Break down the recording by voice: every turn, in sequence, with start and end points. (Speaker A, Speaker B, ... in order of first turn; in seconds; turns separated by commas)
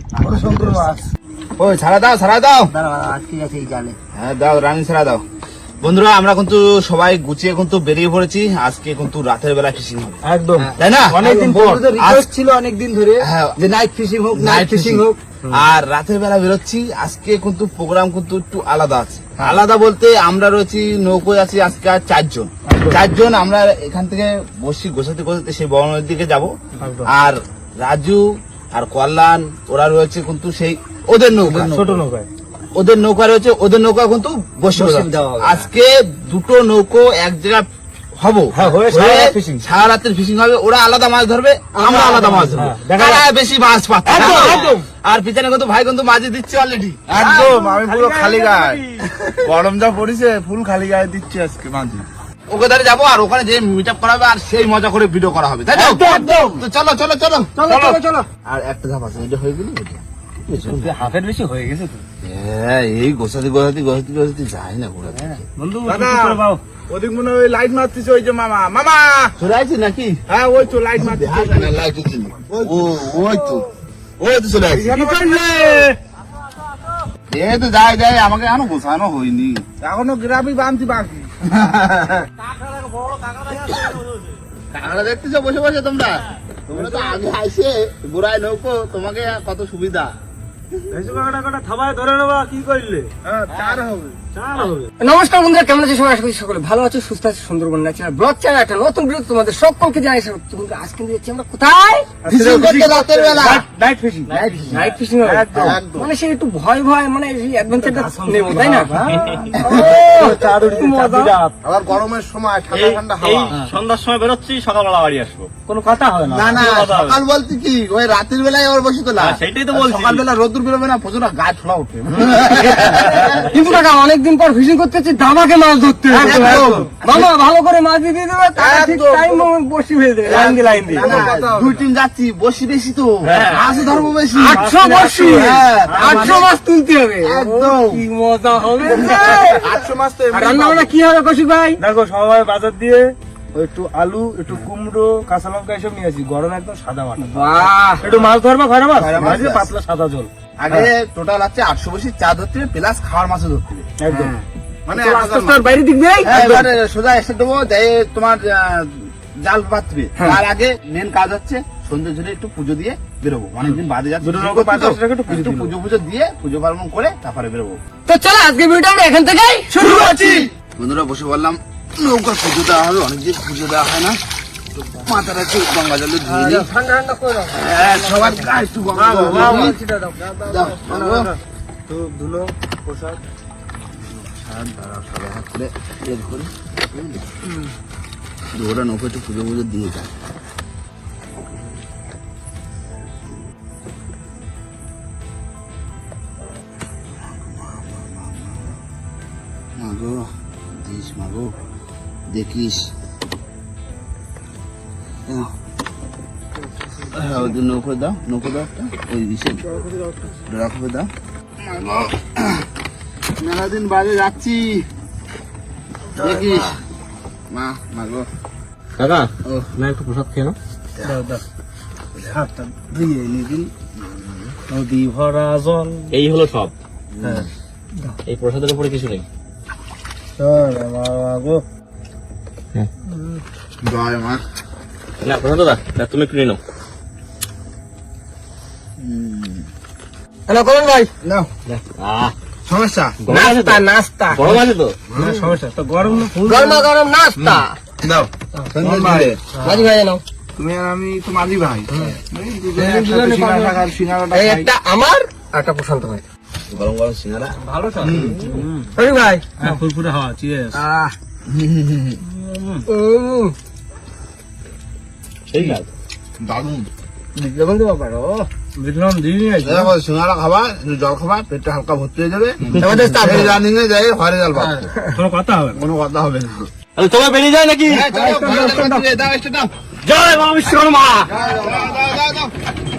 Speaker A: 0.2-1.0, Speaker B: 0.2-0.8, Speaker C: 0.4-0.8, Speaker C: 1.6-2.7, Speaker D: 2.7-4.0, Speaker C: 4.1-5.2, Speaker C: 5.8-10.2, Speaker A: 10.2-12.2, Speaker B: 10.6-15.1, Speaker C: 10.8-11.2, Speaker C: 11.9-12.3, Speaker C: 13.2-13.6, Speaker C: 14.3-32.0, Speaker A: 15.3-15.6, Speaker A: 22.7-23.0, Speaker A: 26.8-27.1, Speaker A: 31.4-32.3, Speaker C: 32.8-47.5, Speaker D: 34.8-35.6, Speaker A: 38.5-39.6, Speaker A: 41.8-43.3, Speaker A: 44.1-44.9, Speaker D: 44.2-44.8, Speaker E: 44.2-44.6, Speaker B: 47.1-48.8, Speaker A: 47.2-49.1, Speaker B: 49.4-52.1, Speaker C: 52.5-57.5, Speaker A: 55.7-56.6, Speaker D: 56.0-56.4, Speaker A: 57.6-58.2, Speaker D: 57.6-58.2, Speaker C: 58.5-61.0, Speaker A: 60.6-62.0, Speaker C: 62.2-65.4, Speaker A: 65.6-66.6, Speaker B: 65.8-69.3, Speaker C: 69.4-70.2, Speaker B: 70.3-71.8, Speaker C: 71.0-73.7, Speaker B: 72.5-73.5, Speaker C: 74.2-75.2, Speaker B: 74.8-75.9, Speaker A: 74.8-76.0, Speaker C: 77.3-79.6, Speaker B: 79.8-81.3, Speaker C: 81.5-82.3, Speaker E: 82.4-84.4, Speaker C: 84.7-90.1, Speaker A: 86.8-87.2, Speaker A: 90.9-93.1, Speaker B: 93.2-94.2, Speaker A: 94.3-94.9, Speaker D: 95.0-102.1, Speaker A: 102.2-105.8, Speaker C: 102.3-103.7, Speaker E: 104.3-105.0, Speaker D: 104.7-109.0, Speaker B: 105.5-106.1, Speaker A: 107.7-111.6, Speaker E: 109.1-109.4, Speaker D: 109.6-111.4, Speaker C: 109.6-110.5, Speaker B: 111.6-113.6, Speaker E: 112.7-115.5, Speaker A: 115.7-116.6, Speaker C: 116.3-123.7, Speaker E: 116.5-117.2, Speaker E: 119.2-120.2, Speaker D: 123.5-130.9, Speaker A: 126.1-126.9, Speaker C: 126.2-127.2, Speaker B: 126.3-126.9, Speaker B: 128.6-129.4, Speaker A: 130.3-131.3, Speaker C: 130.3-134.7, Speaker B: 130.3-131.8, Speaker E: 133.3-133.6, Speaker A: 133.3-136.5, Speaker B: 133.7-134.0, Speaker D: 134.3-139.7, Speaker C: 135.2-136.5, Speaker C: 137.3-138.0, Speaker B: 137.4-137.7, Speaker B: 138.8-140.9, Speaker C: 138.9-139.4, Speaker A: 138.9-139.4, Speaker D: 140.3-141.8, Speaker A: 141.8-150.9, Speaker D: 147.2-148.1, Speaker C: 149.0-149.7, Speaker B: 149.1-149.6, Speaker C: 150.6-153.9, Speaker A: 154.0-154.4, Speaker B: 154.9-155.6, Speaker D: 154.9-156.4, Speaker C: 156.2-167.8, Speaker A: 156.3-156.6, Speaker B: 156.3-156.7, Speaker A: 164.2-165.8, Speaker D: 168.1-169.7, Speaker A: 169.7-170.5, Speaker C: 170.1-174.2, Speaker C: 174.9-176.7, Speaker D: 176.2-178.5, Speaker C: 177.5-179.8, Speaker A: 178.9-183.2, Speaker B: 179.1-179.7, Speaker C: 180.5-181.3, Speaker C: 184.4-187.2, Speaker C: 188.5-190.1, Speaker C: 197.2-198.8, Speaker C: 199.8-201.6, Speaker C: 202.3-202.9, Speaker C: 207.1-209.8, Speaker C: 210.5-212.7, Speaker C: 213.4-214.9, Speaker C: 216.2-216.8, Speaker C: 217.5-218.3, Speaker E: 219.0-220.6, Speaker A: 221.0-221.4, Speaker A: 222.3-222.9, Speaker C: 223.1-224.6, Speaker A: 224.7-226.1, Speaker E: 226.1-226.7, Speaker C: 227.2-227.5, Speaker E: 228.3-229.3, Speaker A: 230.4-231.6, Speaker C: 233.9-234.4, Speaker E: 235.2-236.6, Speaker C: 239.0-239.7, Speaker D: 240.5-241.1, Speaker E: 242.0-242.3, Speaker B: 242.7-243.2, Speaker E: 243.2-245.0, Speaker D: 243.3-244.6, Speaker B: 245.2-245.6, Speaker A: 245.2-246.9, Speaker D: 246.3-247.8, Speaker B: 247.4-249.8, Speaker C: 248.7-249.4, Speaker D: 249.5-250.2, Speaker B: 250.6-254.7, Speaker D: 252.8-256.2, Speaker C: 256.7-257.6, Speaker A: 257.7-258.9, Speaker B: 258.0-258.6, Speaker D: 259.0-259.6, Speaker A: 259.6-260.9, Speaker C: 260.7-262.2, Speaker A: 262.4-262.8, Speaker D: 262.9-263.6, Speaker E: 265.5-265.9, Speaker C: 266.4-266.9, Speaker D: 267.4-268.5, Speaker A: 268.8-269.9, Speaker C: 269.6-274.9, Speaker B: 272.7-273.4, Speaker D: 272.7-273.6, Speaker A: 275.1-275.8, Speaker C: 275.7-276.7, Speaker E: 277.0-278.1, Speaker C: 277.9-279.7, Speaker D: 278.2-278.9, Speaker A: 278.3-279.0, Speaker E: 280.0-281.3, Speaker B: 281.3-282.0, Speaker C: 281.3-282.5